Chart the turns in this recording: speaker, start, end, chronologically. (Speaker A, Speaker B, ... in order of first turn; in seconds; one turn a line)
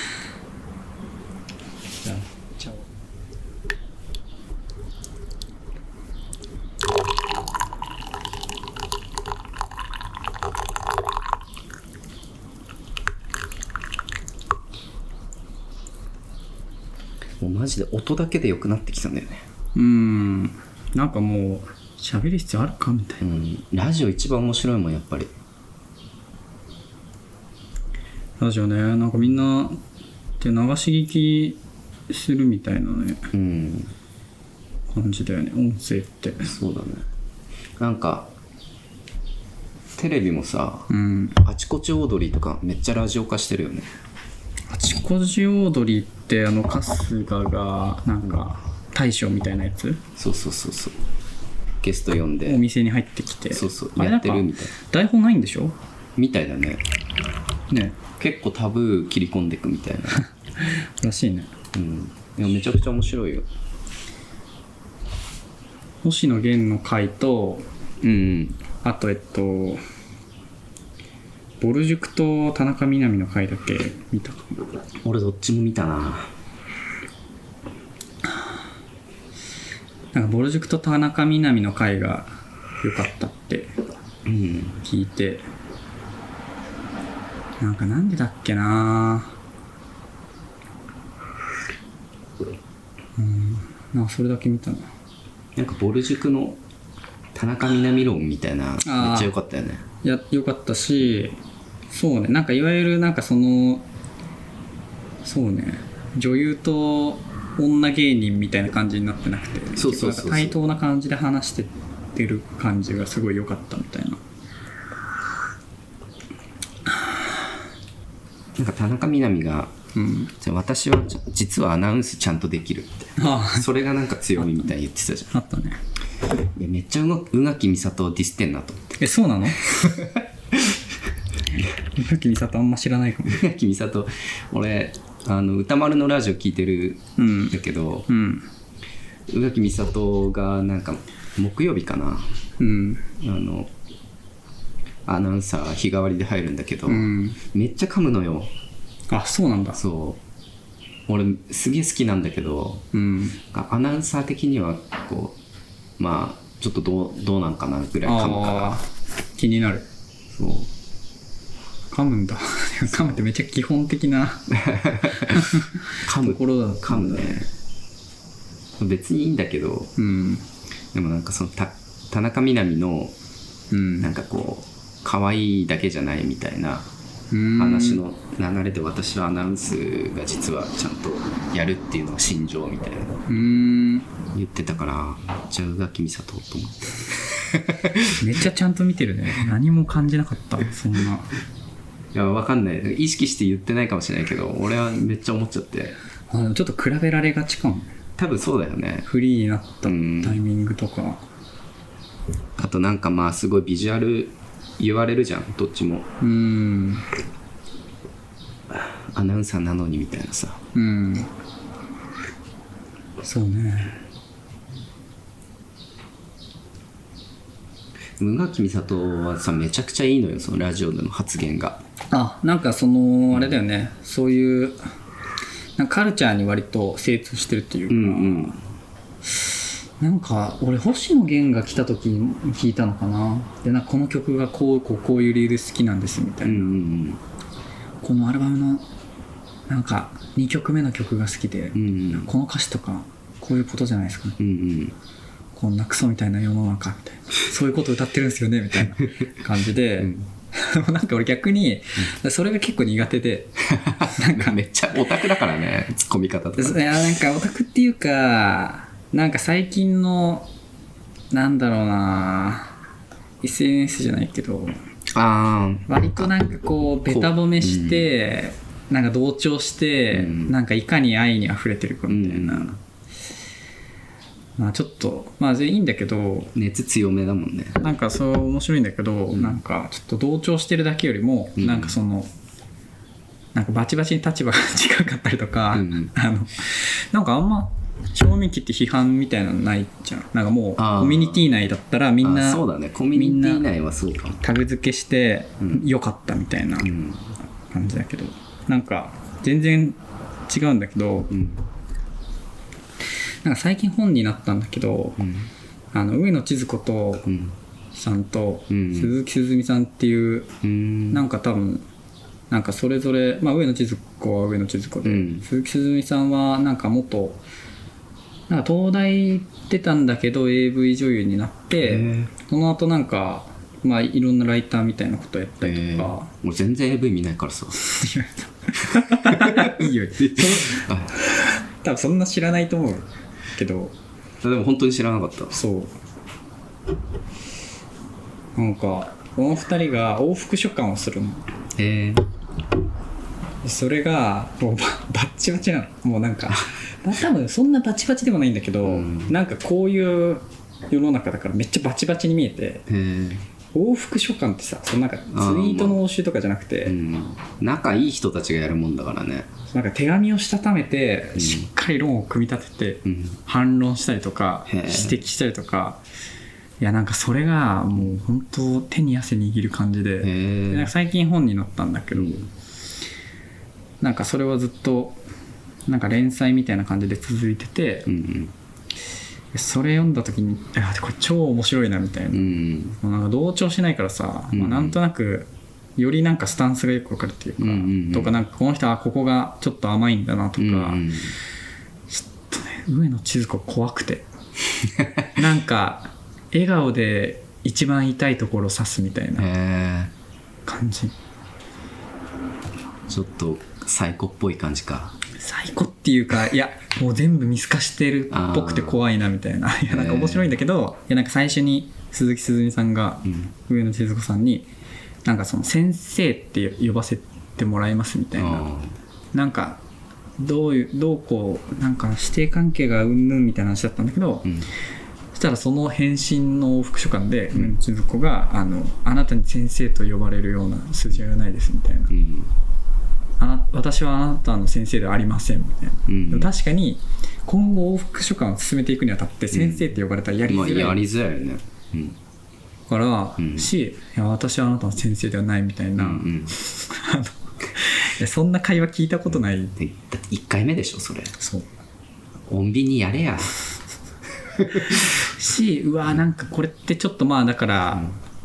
Speaker A: 2.0-2.9
Speaker B: 17.4-19.4
Speaker A: 19.8-23.2
Speaker B: 23.2-25.3
Speaker A: 28.4-29.8
Speaker A: 30.4-33.3
Speaker B: 33.3-33.9
Speaker A: 34.9-36.5
Speaker B: 36.4-37.1
Speaker B: 37.8-38.3
Speaker B: 40.0-40.9
Speaker A: 40.9-41.4
Speaker B: 41.4-43.9
Speaker A: 44.7-50.0
Speaker B: 50.2-51.0
Speaker B: 51.8-52.6
Speaker A: 52.5-55.8
Speaker B: 53.5-54.7
Speaker B: 56.2-56.8
Speaker A: 57.7-58.0
Speaker B: 58.2-60.2
Speaker A: 60.6-61.5
Speaker B: 61.7-63.5
Speaker A: 66.0-67.7
Speaker B: 68.0-68.6
Speaker A: 68.8-69.8
Speaker A: 71.6-74.6
Speaker B: 75.0-76.3
Speaker A: 80.1-83.8
Speaker B: 84.3-84.8
Speaker A: 84.8-85.5
Speaker A: 87.6-89.3
Speaker A: 93.2-94.9
Speaker B: 95.6-96.6
Speaker B: 97.3-99.8
Speaker A: 98.8-99.3
Speaker A: 100.0-101.4
Speaker A: 101.9-103.9
Speaker A: 105.2-114.2
Speaker B: 109.8-110.6
Speaker B: 118.6-119.7
Speaker A: 120.0-120.3
Speaker B: 120.4-125.3
Speaker A: 123.2-123.7
Speaker A: 124.4-124.7
Speaker A: 125.3-125.8
Speaker B: 126.5-129.0
Speaker A: 129.0-129.7
Speaker B: 129.6-130.2
Speaker A: 131.9-133.4
Speaker B: 133.3-138.1
Speaker A: 137.2-137.6
Speaker A: 138.1-138.5
Speaker B: 139.3-142.3
Speaker A: 142.6-143.1
Speaker B: 143.2-143.7
Speaker B: 145.1-148.5
Speaker A: 146.9-147.4
Speaker A: 149.1-149.8
Speaker B: 149.7-150.2
Speaker B: 151.1-152.8
Speaker A: 152.9-153.4
Speaker B: 153.5-155.4
Speaker B: 156.0-158.8
Speaker A: 158.1-159.9
Speaker B: 160.3-160.7
Speaker A: 161.9-164.5
Speaker B: 162.9-163.2
Speaker B: 164.6-165.5
Speaker A: 165.3-167.5
Speaker B: 166.1-167.5
Speaker B: 168.8-169.9
Speaker A: 170.0-170.5
Speaker B: 170.9-173.2
Speaker A: 173.7-174.1
Speaker B: 174.0-176.9
Speaker A: 177.3-178.0
Speaker B: 177.6-183.1
Speaker A: 183.3-184.1
Speaker B: 184.3-188.1
Speaker A: 188.2-191.3
Speaker B: 192.1-196.0
Speaker A: 196.3-197.9
Speaker B: 198.2-199.1
Speaker A: 199.1-201.2
Speaker B: 199.8-200.4
Speaker B: 202.6-206.1
Speaker A: 206.2-207.1
Speaker B: 209.1-210.6
Speaker A: 210.7-211.3
Speaker A: 213.2-214.0
Speaker B: 218.2-221.8
Speaker A: 222.1-224.8
Speaker A: 225.8-228.6
Speaker B: 227.9-228.6
Speaker A: 229.3-236.7
Speaker B: 236.4-237.2
Speaker A: 238.0-238.9
Speaker A: 239.7-244.4
Speaker B: 241.8-242.3
Speaker B: 244.4-244.9
Speaker A: 245.6-254.6
Speaker B: 250.0-250.3
Speaker B: 253.8-256.9
Speaker A: 256.6-260.5
Speaker A: 261.3-262.8
Speaker A: 263.4-264.8
Speaker B: 265.1-266.3
Speaker A: 265.9-272.8
Speaker B: 267.1-268.1
Speaker B: 270.1-270.5
Speaker B: 272.1-272.8
Speaker A: 274.6-276.5
Speaker B: 276.6-277.8
Speaker A: 277.8-282.3
Speaker B: 279.3-279.6
Speaker B: 281.6-281.9
Speaker A: 283.5-293.7
Speaker B: 285.7-286.1
Speaker B: 290.8-291.5
Speaker B: 292.2-294.4
Speaker A: 294.4-296.9
Speaker B: 296.8-297.4
Speaker A: 297.7-300.0
Speaker A: 300.5-301.4
Speaker B: 301.3-301.6
Speaker A: 303.4-305.2
Speaker B: 305.2-305.5
Speaker A: 305.9-307.3
Speaker B: 307.2-307.6
Speaker A: 307.9-310.5
Speaker B: 308.7-309.1
Speaker B: 310.6-311.3
Speaker A: 311.1-311.8
Speaker A: 312.5-317.4
Speaker B: 315.0-315.4
Speaker A: 318.5-326.3
Speaker B: 321.8-322.3
Speaker B: 325.6-327.8
Speaker A: 327.8-333.9
Speaker B: 329.0-331.1
Speaker B: 334.4-335.6
Speaker A: 335.5-335.9
Speaker A: 338.6-341.4
Speaker B: 341.8-342.3
Speaker A: 343.6-352.9
Speaker B: 348.8-349.3
Speaker B: 352.9-353.5
Speaker A: 353.7-357.0
Speaker B: 355.3-356.0
Speaker B: 356.9-359.5
Speaker A: 359.7-366.0
Speaker B: 361.4-361.7
Speaker B: 363.1-363.4
Speaker B: 364.7-365.2
Speaker A: 366.8-372.5
Speaker B: 370.2-370.9
Speaker B: 372.1-372.5
Speaker A: 374.0-375.2
Speaker A: 375.9-378.1
Speaker B: 378.1-378.5
Speaker A: 379.5-391.1
Speaker B: 382.3-383.0
Speaker B: 384.5-385.0
Speaker B: 387.6-388.4
Speaker B: 390.6-391.4
Speaker A: 392.1-394.3
Speaker A: 395.3-399.5
Speaker B: 399.4-400.1
Speaker A: 400.7-401.1
Speaker B: 403.1-405.1
Speaker A: 405.4-414.7
Speaker B: 408.3-409.0
Speaker B: 409.9-410.5
Speaker A: 415.2-418.7
Speaker B: 418.4-418.9
Speaker A: 419.3-419.8
Speaker A: 420.4-424.5
Speaker A: 425.3-432.1
Speaker B: 432.1-432.5
Speaker A: 433.4-441.0
Speaker B: 436.1-436.5
Speaker B: 439.5-439.9
Speaker B: 440.5-442.2
Speaker A: 442.9-449.8
Speaker B: 443.4-443.7
Speaker B: 446.0-446.5
Speaker B: 449.8-451.4
Speaker A: 451.4-451.7
Speaker B: 452.5-453.6
Speaker A: 454.8-458.1